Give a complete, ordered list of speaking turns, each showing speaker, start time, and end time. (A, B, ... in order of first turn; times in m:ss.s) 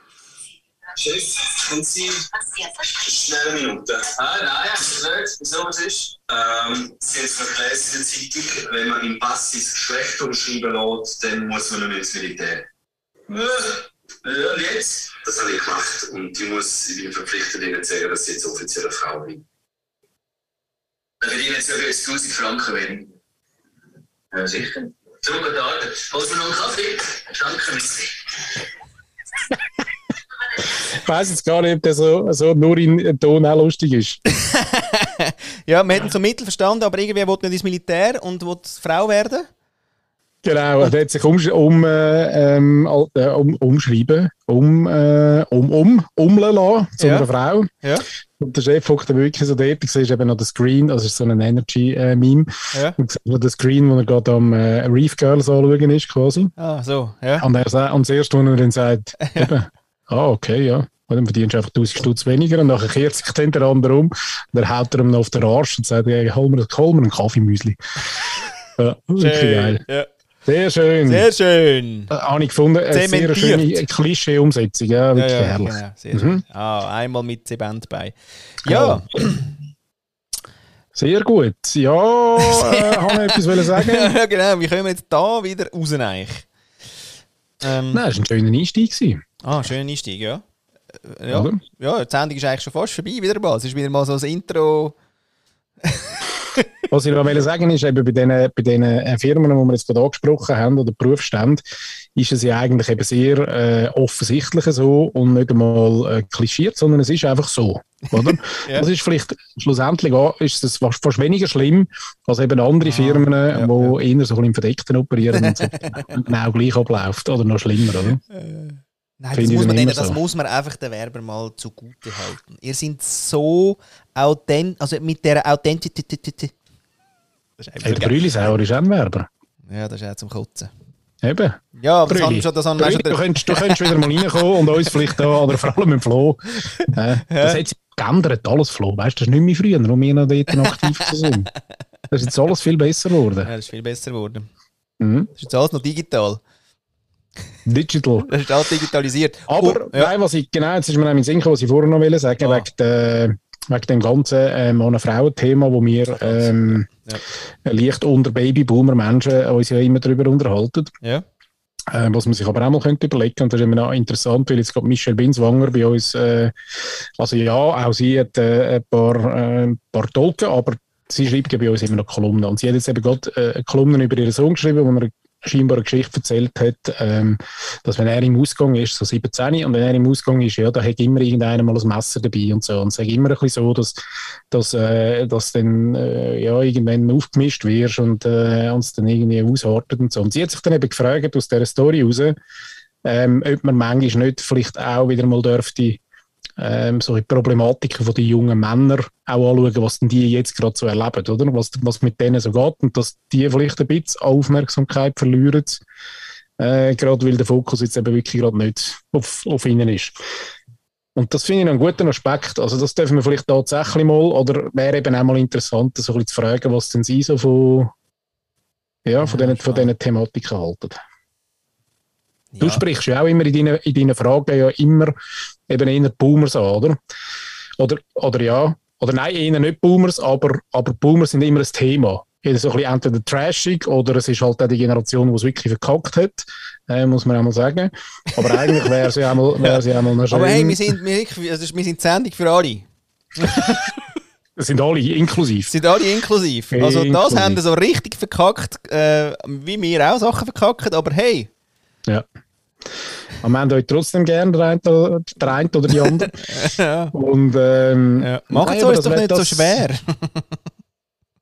0:00.9-0:12.6 A
0:13.3-0:19.4 A
0:21.2-0:23.1 A
0:24.3-0:28.3 A
0:30.9-0:34.2 B
0:34.3-0:39.5 C
0:40.4-0:47.7 B
0:47.0-0:47.3 C
0:48.4-0:56.5 B
0:56.6-0:57.5 C
0:57.4-1:07.8 B
0:59.2-0:59.5 C
1:08.8-1:09.8 B
1:09.2-1:10.1 C
1:10.4-1:11.3 B
1:11.0-1:12.1 C
1:12.1-1:16.4 B
1:12.9-1:13.8 C
1:15.1-1:19.4 C
1:18.6-1:19.2 B
1:20.9-1:24.1 B
1:22.4-1:26.5 C
1:27.6-1:28.0 C
1:27.9-1:29.2 B
1:29.4-1:34.9 C
1:31.3-1:31.6 B
1:35.8-1:36.6 C
1:36.9-1:41.6 B
1:42.2-1:58.2 B
1:48.1-1:48.9 C
1:52.8-1:54.0 C
1:55.3-1:56.2 C
1:58.3-2:06.5 C
1:59.3-2:00.2 B
2:07.6-2:08.2 C
2:07.8-2:09.3 B
2:09.7-2:10.7 C
2:11.2-2:21.5 B
2:11.8-2:15.4 C
2:16.6-2:17.6 C
2:20.5-2:21.4 C
2:22.1-2:23.5 B
2:23.4-2:24.5 C
2:25.0-2:25.3 B
2:25.4-2:26.4 C
2:27.6-2:28.3 B
2:28.2-2:30.1 C
2:29.5-2:36.9 B
2:32.4-2:32.7 C
2:36.1-2:37.2 C
2:37.6-2:40.9 B
2:41.9-3:04.0 B
3:04.5-3:12.4 B
3:13.0-3:16.0 B
3:16.6-3:25.8 B
3:26.6-3:30.2 B
3:31.1-3:37.9 B
3:39.0-3:41.0 B
3:39.2-3:39.9 C
3:42.5-3:42.8 C
3:42.6-3:45.2 B
3:45.7-3:47.0 B
3:47.8-4:00.9 B
3:58.4-3:59.0 C
3:59.6-4:02.8 C
4:03.4-4:03.9 C
4:04.6-4:05.7 B
4:05.7-4:11.5 C
4:06.7-4:07.6 B
4:13.4-4:16.4 B
4:16.3-4:17.1 C
4:17.1-4:19.8 B
4:18.2-4:20.5 C